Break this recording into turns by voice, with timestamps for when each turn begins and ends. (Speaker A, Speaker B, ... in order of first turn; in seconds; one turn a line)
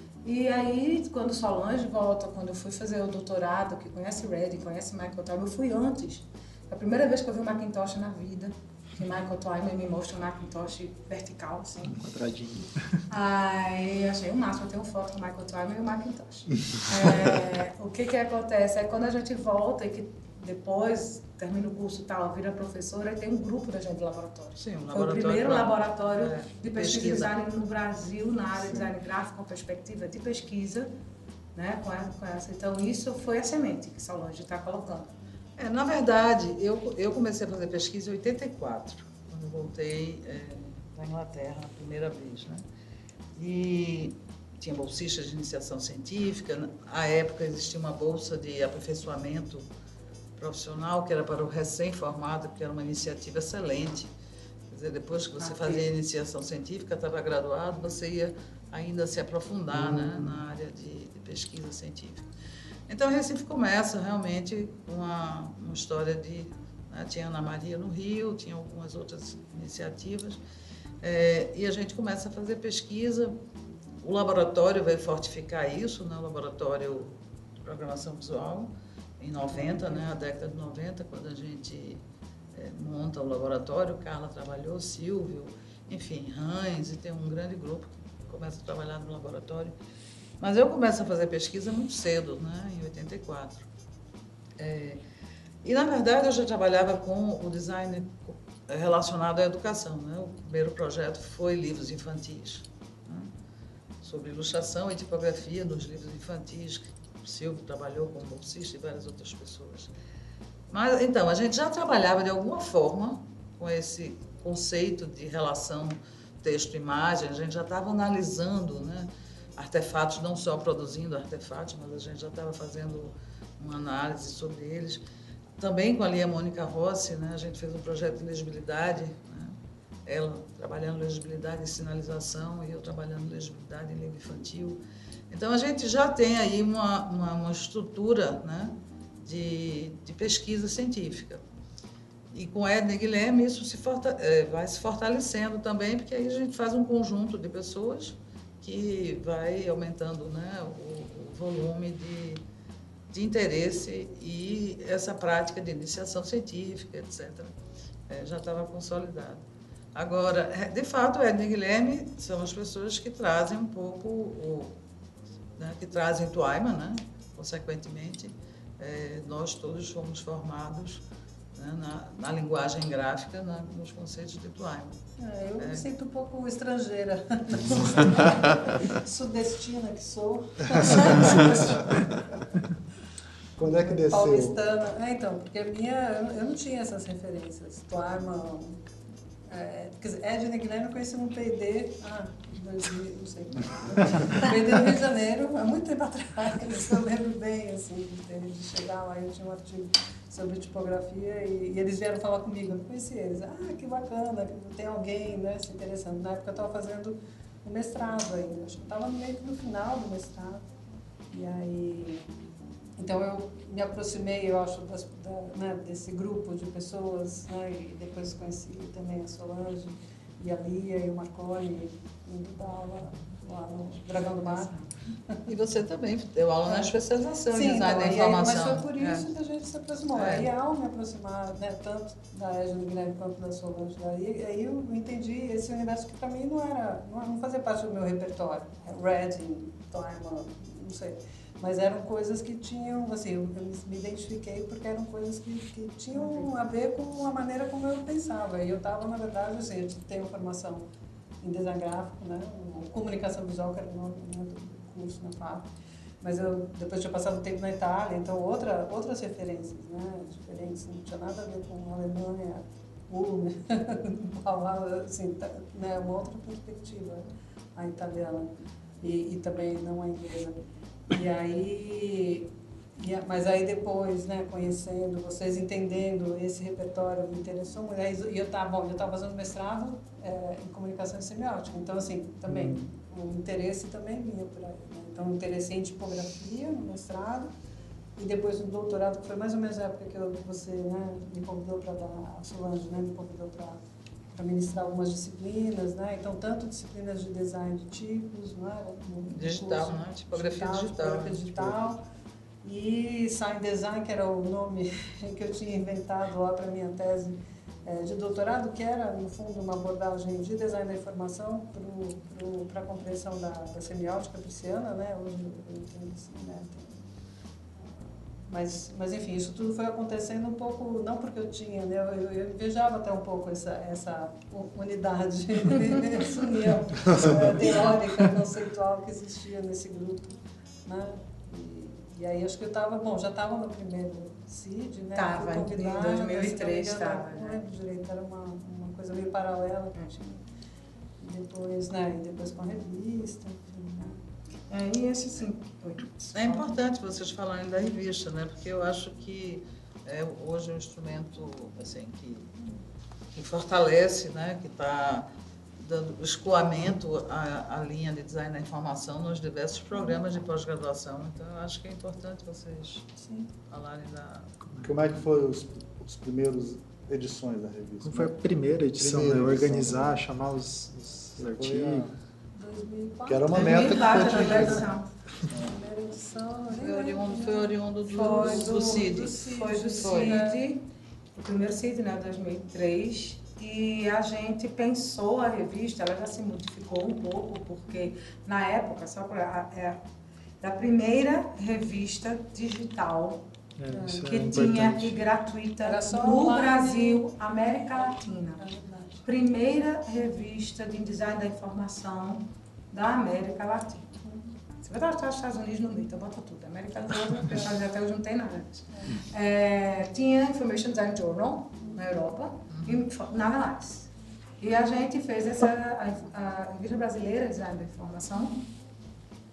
Speaker A: 0.2-11.9
Speaker B: 11.8-13.1
Speaker A: 13.1-30.9
Speaker C: 24.6-27.3
Speaker A: 31.5-35.1
Speaker C: 35.6-42.6
Speaker C: 43.4-49.6
Speaker C: 50.4-54.1
Speaker C: 54.7-62.3
Speaker A: 55.4-55.8
Speaker D: 59.7-60.4
Speaker C: 62.9-70.4
Speaker C: 71.0-73.4
Speaker C: 74.0-89.7
Speaker C: 90.4-93.7
Speaker C: 94.6-95.0
Speaker C: 95.6-103.3
Speaker C: 104.0-109.9
Speaker C: 110.7-125.0
Speaker C: 125.6-141.4
Speaker C: 142.3-152.4
Speaker C: 153.1-157.5
Speaker C: 158.1-159.4
Speaker C: 159.9-164.8
Speaker C: 165.6-171.0
Speaker C: 171.5-175.0
Speaker E: 175.2-182.1
Speaker C: 175.6-175.8
Speaker D: 180.8-181.3
Speaker D: 183.6-184.6
Speaker E: 183.6-188.8
Speaker E: 189.4-210.7
Speaker E: 211.3-212.2
Speaker E: 213.0-225.4
Speaker A: 224.1-224.6
Speaker C: 225.4-229.3
Speaker E: 226.7-226.9
Speaker E: 227.5-250.8
Speaker C: 230.1-230.5
Speaker E: 251.4-255.7
Speaker E: 256.2-270.6
Speaker E: 271.1-287.5
Speaker B: 282.5-282.8
Speaker E: 288.1-293.8
Speaker E: 294.3-302.0
Speaker C: 299.3-301.4
Speaker E: 302.6-317.1
Speaker E: 317.8-340.4
Speaker D: 327.1-327.3
Speaker A: 335.1-337.6
Speaker E: 341.2-344.2
Speaker A: 344.7-346.8
Speaker C: 346.3-352.5
Speaker C: 353.3-363.1
Speaker E: 363.2-363.5
Speaker C: 363.7-364.5
Speaker D: 364.8-368.3
Speaker B: 368.0-372.1
Speaker D: 369.0-370.2
Speaker D: 371.4-372.1
Speaker E: 372.5-380.6
Speaker D: 373.3-374.9
Speaker A: 373.5-375.1
Speaker C: 376.7-379.4
Speaker A: 378.1-390.0
Speaker C: 380.0-380.4
Speaker A: 390.6-393.5
Speaker B: 393.8-395.2
Speaker E: 393.9-394.5
Speaker A: 394.2-398.6
Speaker E: 395.8-397.2
Speaker E: 397.9-399.2
Speaker A: 399.2-404.2
Speaker E: 404.2-404.5
Speaker A: 404.8-414.1
Speaker E: 408.9-409.2
Speaker C: 412.7-413.0
Speaker A: 414.6-418.6